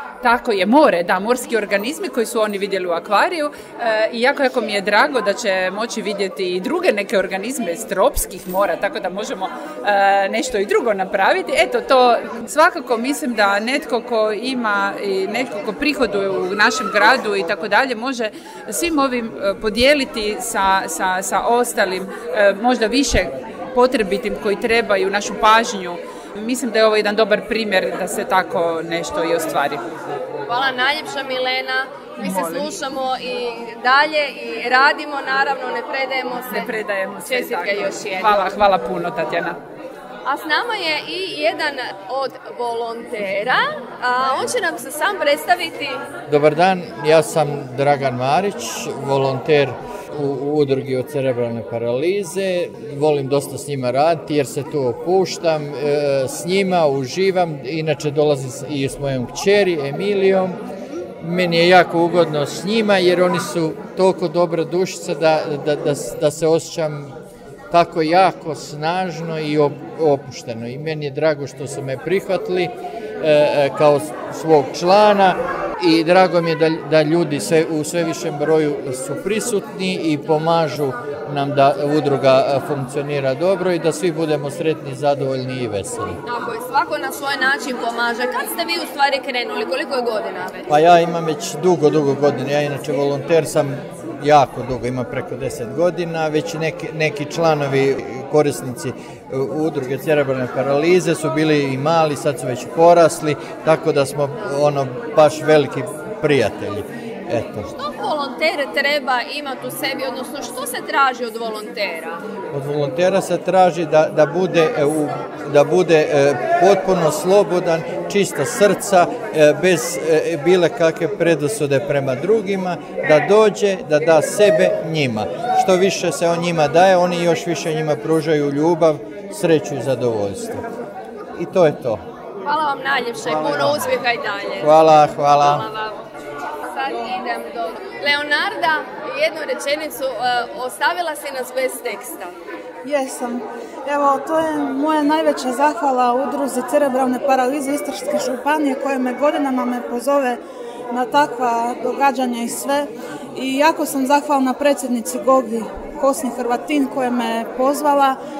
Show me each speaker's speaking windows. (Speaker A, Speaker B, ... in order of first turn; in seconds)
Speaker A: 0.2-29.8, 32.2-32.8, 36.5-39.6
Speaker B: 30.5-36.7, 37.2-38.4, 40.2-46.0, 86.2-90.7, 107.7-112.2, 132.4-134.7, 135.4-136.0, 136.7-142.3
Speaker C: 46.3-60.6, 61.2-67.1, 67.7-86.2, 90.7-107.7, 112.5-130.6, 131.3-132.0, 133.3-133.9, 134.6-135.6
Speaker D: 142.8-150.4, 150.9-158.2